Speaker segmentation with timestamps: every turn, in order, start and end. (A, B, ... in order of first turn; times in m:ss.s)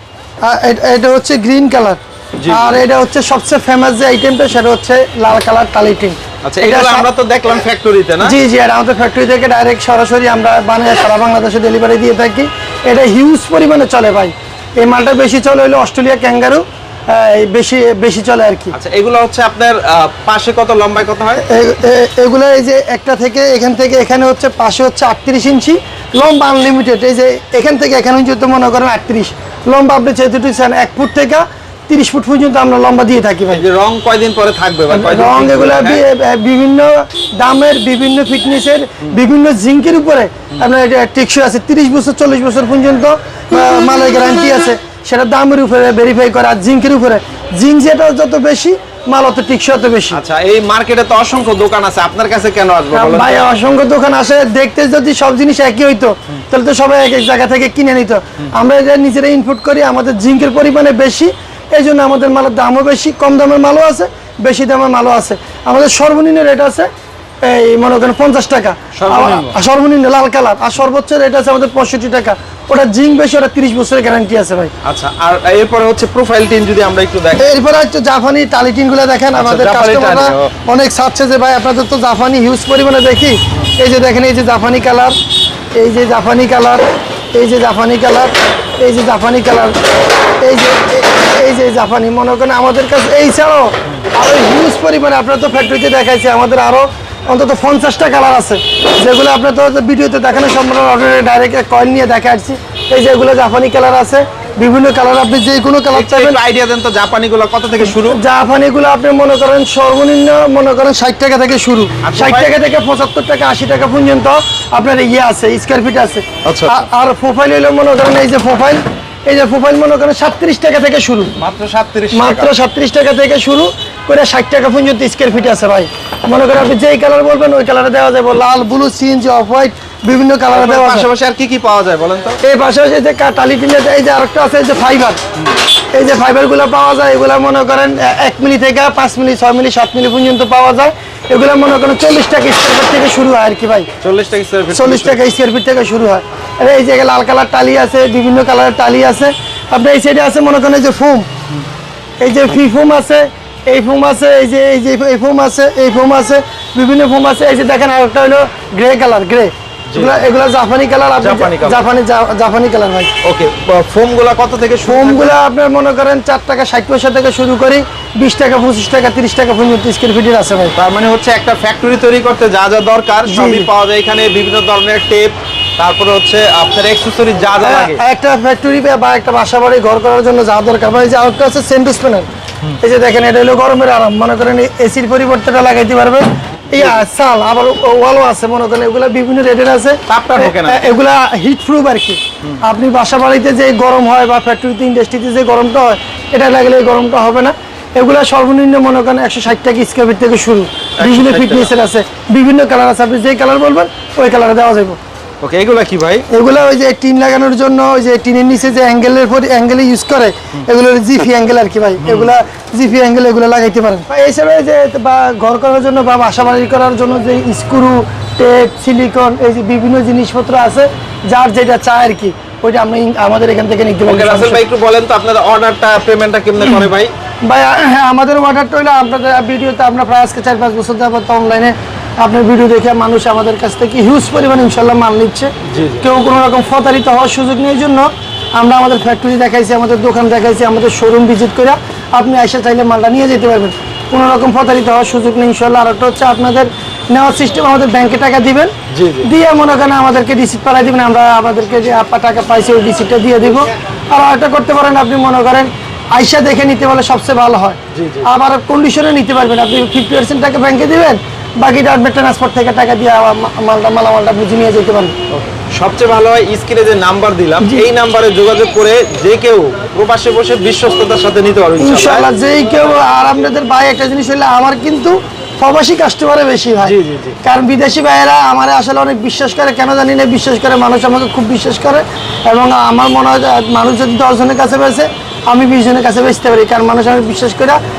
0:00.4-0:07.1 A
0:02.4-0:02.8 B
0:06.4-0:08.4 B
0:08.2-0:18.7 A
0:18.7-0:21.4 B
0:21.5-0:33.6 A
0:33.5-0:36.0 B
0:34.9-0:50.2 A
0:50.1-0:53.4 B
0:52.9-1:06.9 A
1:07.4-1:14.7 A
1:08.9-1:09.6 B
1:14.8-1:17.6 B
1:17.4-1:25.2 A
1:19.4-1:20.5 B
1:25.7-1:26.8 A
1:27.3-1:29.8 A
1:30.4-1:46.4 A
1:45.9-1:48.2 B
1:47.8-2:01.3 A
1:52.0-1:52.5 B
1:56.4-1:56.8 B
2:01.4-2:02.5 B
2:02.1-2:11.1 A
2:10.5-2:12.4 B
2:12.4-2:15.2 A
2:15.9-2:23.9 A
2:24.0-2:25.2 B
2:24.7-2:31.3 A
2:32.2-2:43.1 A
2:39.9-2:40.2 B
2:41.2-2:41.8 B
2:43.2-2:45.4 B
2:44.8-2:50.7 A
2:50.8-2:58.0 B
2:53.3-2:53.7 A
2:57.6-3:02.3 A
3:02.8-3:25.0 A
3:10.1-3:10.9 B
3:21.0-3:21.7 B
3:25.4-3:26.2 B
3:26.3-3:44.6 A
3:32.0-3:32.3 B
3:44.1-3:47.1 B
3:47.4-4:25.2 A
3:55.7-3:56.1 B
4:08.9-4:09.3 B
4:17.9-4:18.3 B
4:25.3-4:32.3 B
4:27.6-4:27.9 A
4:31.8-4:47.8 A
4:36.8-4:37.4 B